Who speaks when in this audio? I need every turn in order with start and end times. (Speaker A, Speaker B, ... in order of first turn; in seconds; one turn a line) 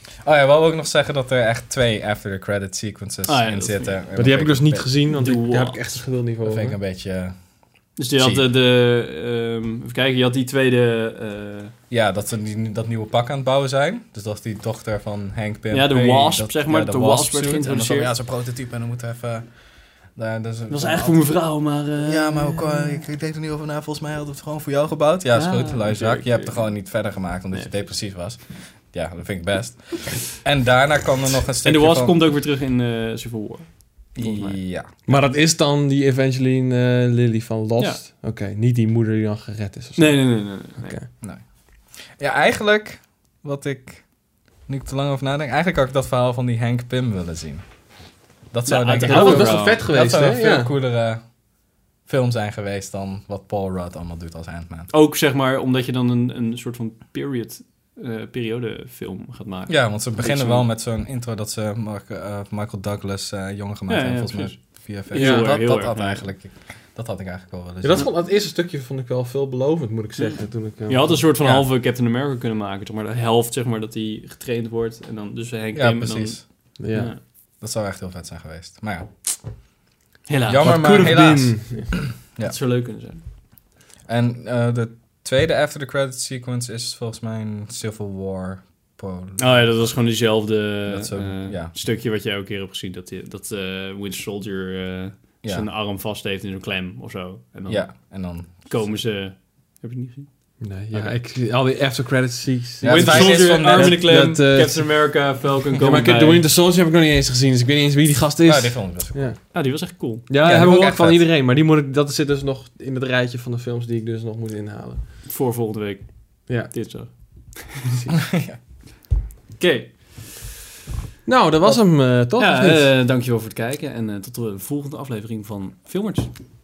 Speaker A: 0.2-4.9
Speaker B: 3.3-4.0
Speaker C: 4.1-6.8
Speaker B: 5.1-5.8
Speaker A: 6.4-7.3
Speaker B: 8.0-11.7
Speaker A: 8.2-8.4
Speaker A: 11.9-19.6
Speaker B: 15.7-18.1
Speaker A: 20.1-21.3
Speaker B: 20.7-23.0
Speaker A: 22.0-32.2
Speaker B: 25.3-26.7
Speaker B: 31.6-34.6
Speaker A: 34.1-34.9
Speaker C: 35.1-41.0
Speaker B: 40.0-41.0
Speaker A: 42.2-44.0
Speaker A: 44.7-47.6
Speaker A: 48.5-51.2
Speaker B: 48.6-49.9
Speaker C: 49.0-50.7
Speaker A: 52.0-54.9
Speaker B: 54.9-60.6
Speaker A: 59.7-68.1
Speaker B: 63.9-66.2
Speaker C: 65.1-65.5
Speaker C: 67.8-71.2
Speaker B: 70.2-77.2
Speaker A: 71.4-71.7
Speaker A: 75.7-76.4
Speaker C: 76.8-77.1
Speaker A: 77.6-79.1
Speaker B: 80.3-81.1
Speaker A: 80.5-82.5
Speaker C: 80.6-81.9
Speaker B: 82.4-83.2
Speaker A: 84.1-89.9
Speaker B: 89.4-97.9
Speaker A: 90.9-91.7
Speaker A: 97.7-98.7
Speaker B: 98.6-100.3
Speaker C: 100.6-109.4
Speaker A: 102.8-104.0
Speaker B: 102.8-106.4
Speaker A: 108.5-109.3
Speaker B: 109.5-110.3
Speaker C: 110.3-115.0
Speaker A: 110.4-111.2
Speaker B: 115.3-117.9
Speaker C: 116.5-116.8
Speaker C: 117.9-118.2
Speaker A: 118.2-118.6
Speaker B: 119.6-120.3
Speaker C: 121.2-122.9
Speaker B: 122.4-126.3